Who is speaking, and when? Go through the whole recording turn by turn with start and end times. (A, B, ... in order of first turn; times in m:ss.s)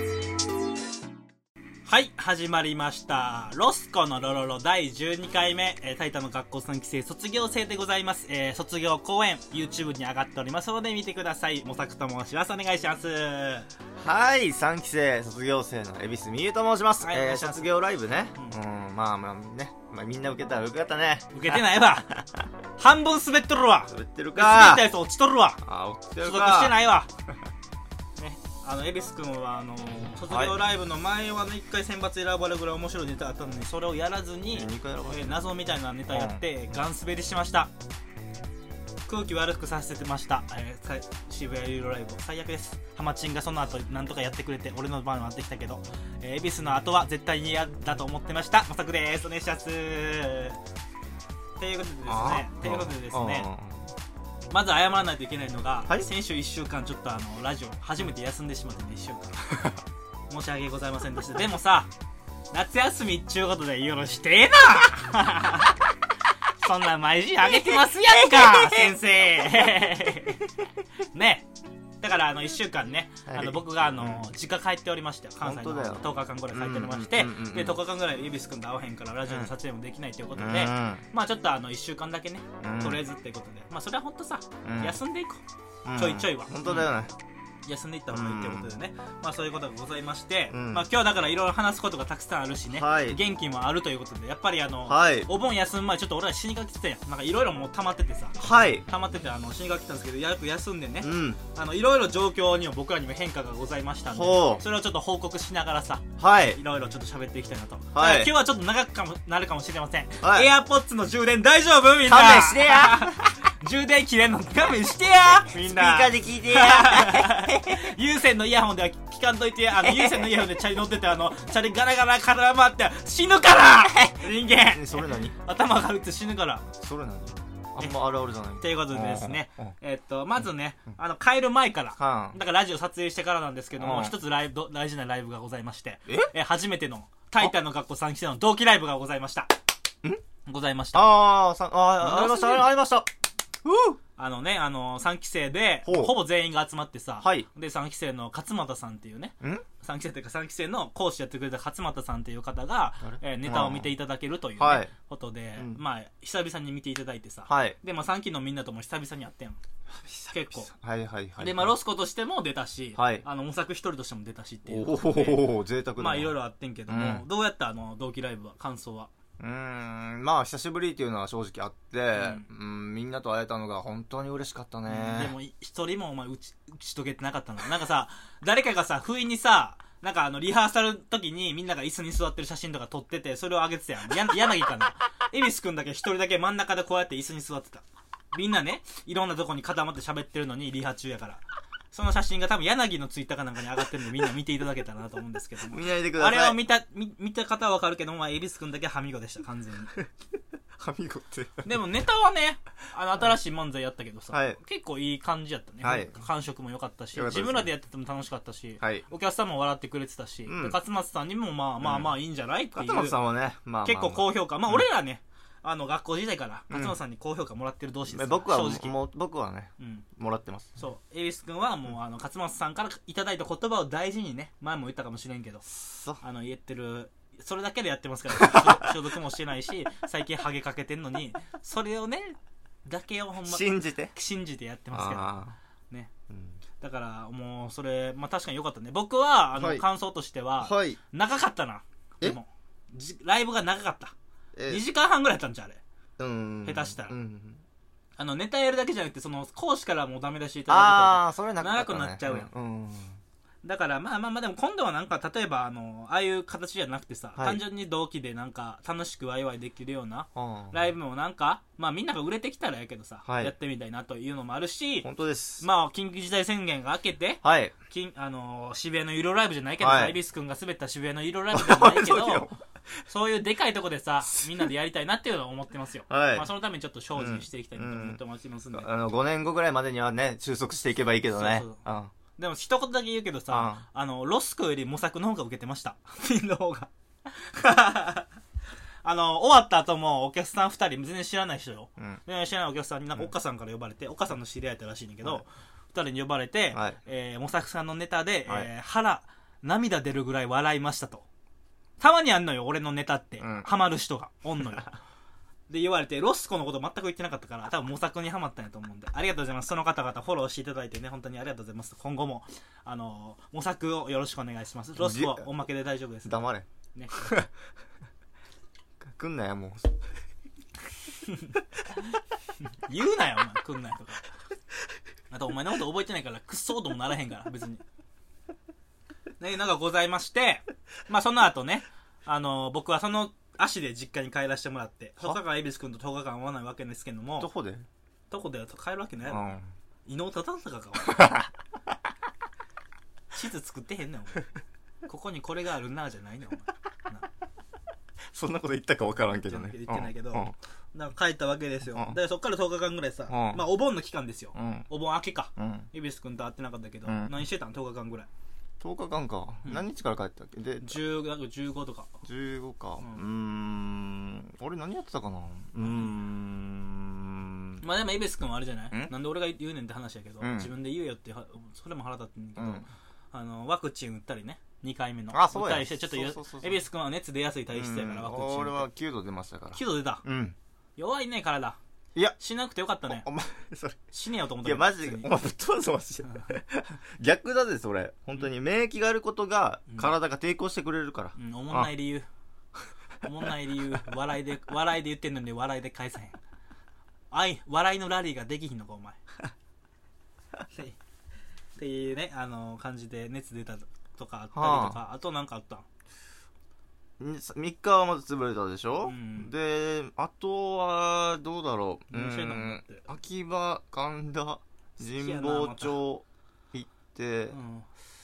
0:01.8-0:13.7 A
0:14.0-0:22.2 B
0:17.0-0:17.7 A
0:21.3-0:22.1 A
0:22.8-0:25.6 A
0:23.9-0:24.9 B
0:25.6-0:26.8 B
0:26.2-0:27.1 A
0:28.2-0:37.7 A
0:30.3-0:30.6 B
0:34.5-0:35.5 B
0:36.1-0:36.4 B
0:39.1-0:50.6 A
0:51.6-0:53.5 A
0:52.1-0:53.9 B
0:54.5-0:59.7 A
1:00.3-1:01.9 A
1:02.5-1:05.8 A
1:06.6-1:10.5 A
1:07.6-1:08.9 B
1:11.1-1:11.5 A
1:12.0-1:25.4 A
1:13.3-1:14.3 B
1:15.4-1:17.8 B
1:19.3-1:19.5 B
1:20.3-1:21.0 B
1:22.6-1:23.0 B
1:24.6-1:25.0 B
1:25.8-1:27.1 B
1:26.0-1:26.9 A
1:27.6-2:06.7 A
1:28.1-1:28.7 B
1:30.5-1:30.8 B
1:32.7-1:33.2 B
1:34.9-1:35.3 B
1:38.4-1:38.8 B
1:41.0-1:41.4 B
1:44.1-1:44.6 B
1:46.2-1:46.6 B
1:47.9-1:48.3 B
1:50.2-1:50.5 B
1:52.0-1:53.3 B
1:55.5-1:57.9 B
1:59.8-2:00.4 B
2:04.5-2:05.3 B
2:06.8-2:09.7 B
2:08.6-2:19.5 A
2:12.0-2:12.4 B
2:13.8-2:14.2 B
2:16.1-2:16.3 B
2:20.4-2:21.1 A
2:20.9-2:23.1 B
2:22.0-2:22.7 A
2:23.6-2:24.0 B
2:24.2-2:39.6 A
2:25.8-2:26.2 B
2:27.2-2:27.4 B
2:33.0-2:33.9 B
2:34.6-2:34.9 B
2:37.5-2:37.8 B
2:39.9-2:41.7 B
2:40.3-2:40.7 A
2:41.4-2:49.1 A
2:43.0-2:43.2 B
2:44.7-2:46.3 B
2:46.9-2:47.2 B
2:49.4-2:55.3 B
2:52.2-2:52.4 A
2:54.9-3:19.9 A
3:15.6-3:16.6 B
3:20.8-3:21.7 B
3:21.6-3:33.2 A
3:24.3-3:24.6 B
3:25.8-3:26.2 B
3:27.1-3:27.7 B
3:28.8-3:29.0 B
3:30.5-3:30.8 B
3:31.8-3:32.2 B
3:32.8-3:34.9 B
3:33.8-3:39.0 A
3:36.7-3:37.0 B
3:38.1-3:40.8 B
3:39.8-3:40.0 A
3:40.8-3:45.7 A
3:45.7-3:46.2 B
3:46.2-3:55.4 A
3:48.4-3:48.9 B
3:53.5-3:54.1 B
3:54.9-3:55.6 B
3:56.3-3:56.6 B
3:56.8-4:04.1 A
3:59.6-3:59.8 B
4:00.6-4:01.0 B
4:04.6-4:04.8 B
4:04.7-4:05.8 A
4:06.2-4:07.6 B
4:06.6-4:07.1 A
4:08.2-4:12.5 A
4:10.7-4:13.2 B
4:13.6-4:25.1 A
4:17.4-4:17.6 B
4:20.3-4:20.8 B
4:23.2-4:23.5 B
4:25.0-4:25.6 B
4:25.6-4:32.5 A
4:27.4-4:27.7 B
4:29.8-4:30.2 B
4:31.5-4:32.6 B
4:33.1-4:38.9 A
4:34.2-4:34.6 B
4:36.1-4:36.5 B
4:37.1-4:38.2 B
4:38.7-4:42.1 B
4:41.3-4:41.8 A
4:42.4-4:48.3 A
4:43.5-4:43.8 B
4:49.0-5:01.2 A
5:02.0-5:05.0 A
5:03.4-5:03.7 B
5:05.7-5:16.4 A
5:15.0-5:15.4 B
5:16.2-5:16.6 B
5:16.9-5:17.4 A
5:17.2-5:17.5 B
5:19.0-5:20.0 B
5:21.2-5:21.5 A
5:22.8-5:24.3 A
5:25.3-5:27.8 A
5:29.4-5:37.5 A
5:37.4-5:37.9 B
5:38.3-5:39.5 A
5:39.3-5:39.7 B
5:40.0-5:41.4 A
5:41.1-5:41.4 B
5:43.3-5:44.5 A
5:45.0-5:47.3 A
5:48.3-5:50.5 B
5:49.2-5:58.3 A
5:53.3-5:53.6 B
5:54.5-5:54.8 B
5:55.6-5:55.9 B
5:57.0-5:57.4 B
5:58.8-6:01.0 B
6:00.8-6:02.1 A
6:02.2-6:07.8 B
6:05.8-6:06.2 A
6:07.8-6:18.9 A
6:10.4-6:10.7 B
6:12.6-6:12.8 B
6:15.3-6:16.8 B
6:17.7-6:20.6 B
6:19.7-6:20.2 A
6:21.0-6:21.8 A
6:22.4-6:23.2 A
6:23.1-6:24.0 B
6:24.1-6:25.3 A
6:24.6-6:31.9 B
6:26.2-6:26.5 A
6:29.9-6:30.1 A
6:31.4-6:32.3 A
6:33.2-6:36.4 A
6:37.3-6:39.2 A
6:40.7-6:41.0 A
6:41.8-6:45.9 A
6:44.5-6:45.0 B
6:47.2-6:57.6 B
6:49.0-6:49.5 A
6:52.1-6:53.0 A
6:55.0-6:56.0 A
6:57.5-6:57.8 A